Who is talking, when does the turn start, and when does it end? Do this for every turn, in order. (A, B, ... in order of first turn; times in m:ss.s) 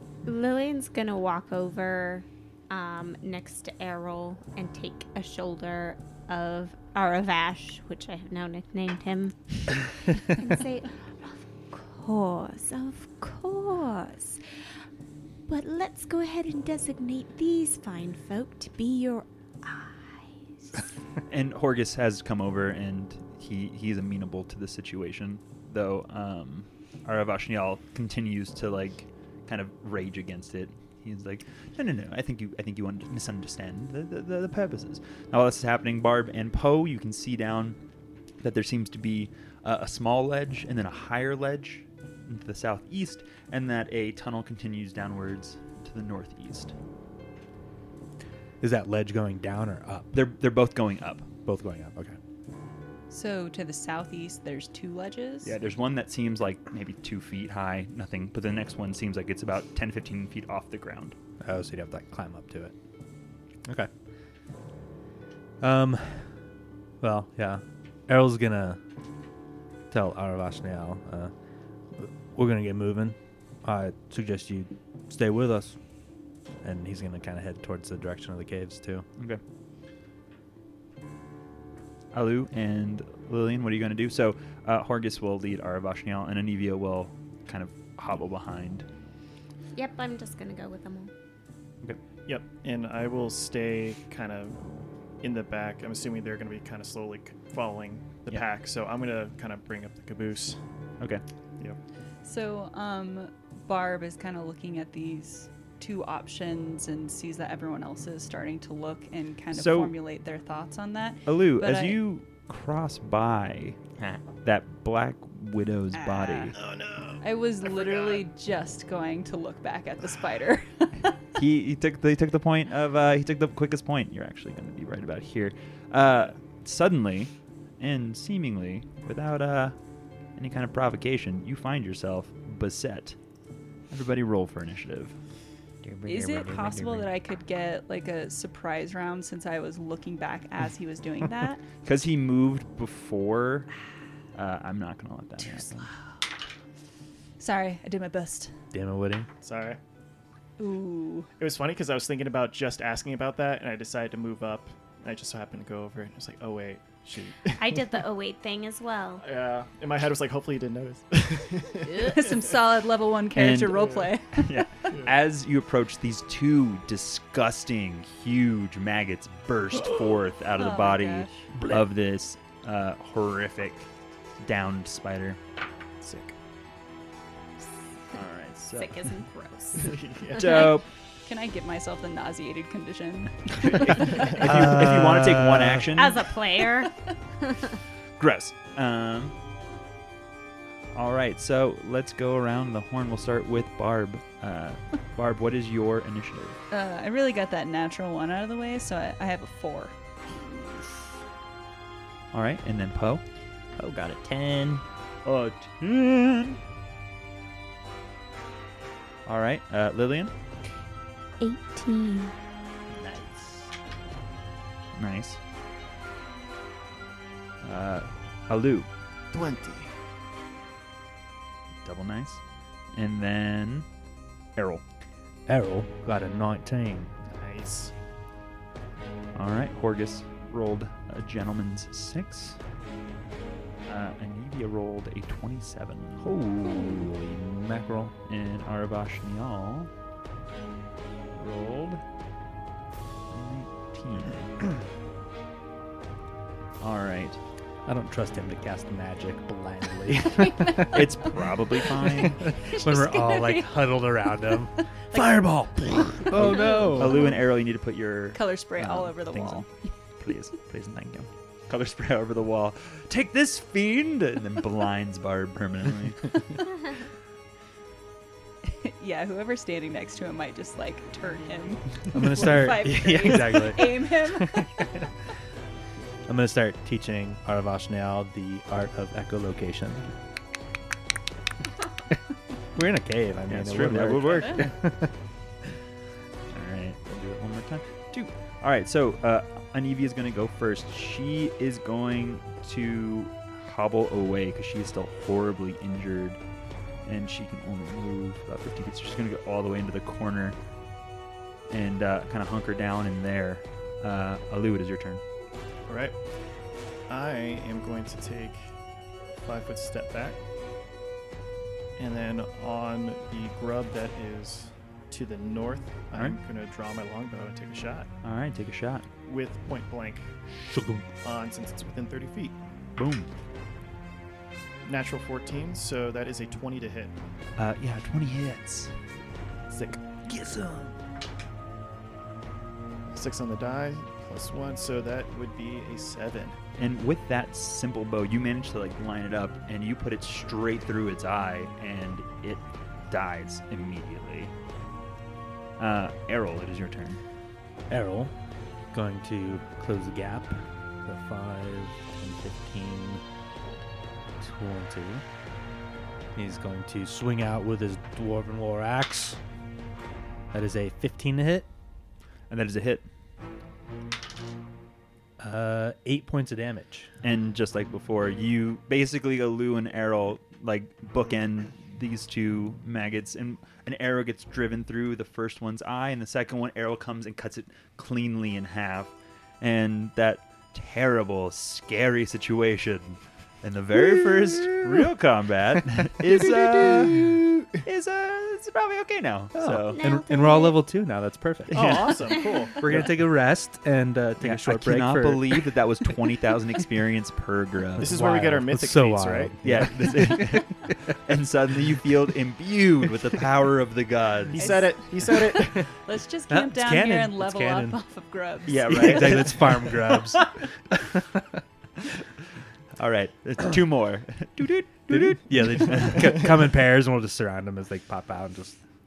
0:00.2-0:14.8 A
0:15.5-0:20.8 A
0:21.3-0:37.8 B
0:38.4-0:46.7 B
0:48.6-0:50.2 C
0:50.1-0:51.3 B
0:51.5-0:52.2 C
0:53.1-0:55.6 D
0:55.4-1:01.2 B
1:01.4-1:02.8 C
1:03.6-1:03.9 C
1:05.6-1:06.5 C
1:07.0-1:08.8 C
1:09.9-1:11.3 C
1:11.9-1:19.1 C
1:22.1-1:28.9 B
1:29.7-1:31.1 A
1:32.2-1:41.0 E
1:42.2-1:52.0 D
1:49.5-1:50.0 B
1:51.3-1:53.8 B
1:54.0-1:54.2 F
1:54.4-1:56.6 B
1:55.9-1:56.6 D
1:56.7-1:58.2 E
1:57.2-2:01.2 D
2:01.4-2:13.2 B
2:13.9-2:15.2 B
2:15.8-2:17.1 F
2:16.1-2:21.6 D
2:21.8-2:23.8 B
2:24.3-2:25.9 B
2:27.4-2:28.5 D
2:28.7-2:29.3 C
2:29.4-2:29.8 E
2:30.6-2:31.3 D
2:31.4-2:37.7 E
2:37.6-2:39.2 A
2:39.2-2:42.0 E
2:41.9-2:42.2 A
2:42.1-2:45.0 D
2:43.4-2:55.4 B
2:50.6-2:51.6 D
2:56.0-2:56.3 E
2:57.7-3:00.4 A
2:58.1-2:59.1 B
2:59.8-3:00.7 E
3:00.4-3:00.9 B
3:01.2-3:04.4 D
3:03.7-3:06.2 B
3:04.4-3:05.8 C
3:06.0-3:07.6 A
3:08.2-3:09.4 B
3:10.9-3:16.6 B
3:16.7-3:20.2 D
3:22.3-3:23.2 B
3:23.8-3:24.9 F
3:25.2-3:26.6 B
3:29.2-3:30.3 B
3:31.4-3:32.3 A
3:32.9-3:33.7 C
3:34.9-3:35.4 B
3:37.6-3:38.9 B
3:39.3-3:40.0 E
3:41.8-3:44.0 B
3:44.6-3:44.8 B
3:45.5-3:47.1 C
3:47.3-3:47.9 E
3:49.3-3:52.6 B
3:53.9-3:56.4 B
3:56.2-3:58.1 C
3:58.3-3:59.9 B
4:01.3-4:02.0 B
4:03.3-4:04.9 B
4:06.8-4:07.4 B
4:07.8-4:11.3 C
4:10.9-4:12.5 B
4:12.1-4:17.3 C
4:12.8-4:13.6 A
4:12.9-4:13.6 D
4:15.1-4:15.6 D
4:16.2-4:17.4 D
4:16.3-4:26.6 B
4:18.3-4:20.2 D
4:28.8-4:34.7 D
4:32.1-4:34.9 C
4:36.3-4:40.1 C
4:42.7-4:45.2 C
4:43.5-4:44.8 B
4:46.5-4:56.4 B
4:57.0-5:00.6 B
5:01.7-5:05.2 B
5:05.9-5:10.4 E
5:12.0-5:18.1 E
5:16.1-5:16.4 B
5:18.2-5:19.1 B
5:19.2-5:20.5 E
5:20.6-5:21.1 C
5:21.2-5:22.6 E
5:23.0-5:23.3 B
5:24.8-5:27.2 E
5:27.6-5:29.0 B
5:29.7-5:30.6 E
5:30.5-5:30.7 B
5:33.1-5:36.6 E
5:36.8-5:44.5 B
5:45.8-5:47.2 B
5:47.9-5:48.4 C
5:48.9-5:53.2 C
5:54.4-5:55.2 C
5:56.4-5:59.4 C
6:00.5-6:01.7 C
6:02.5-6:03.1 B
6:05.4-6:07.1 C
6:07.2-6:30.0 B
6:24.0-6:25.1 C
6:26.2-6:27.7 C
6:29.6-6:35.5 C
6:29.9-6:30.8 A
6:31.7-6:33.1 E
6:34.4-6:38.2 B
6:38.0-6:40.7 C
6:38.0-6:40.1 E
6:39.6-6:44.9 B
6:44.5-6:46.0 E
6:44.6-6:49.5 D
6:46.5-6:48.0 C
6:48.7-6:49.9 B
6:49.0-6:51.6 C
6:53.0-6:56.4 B
6:55.1-6:58.8 C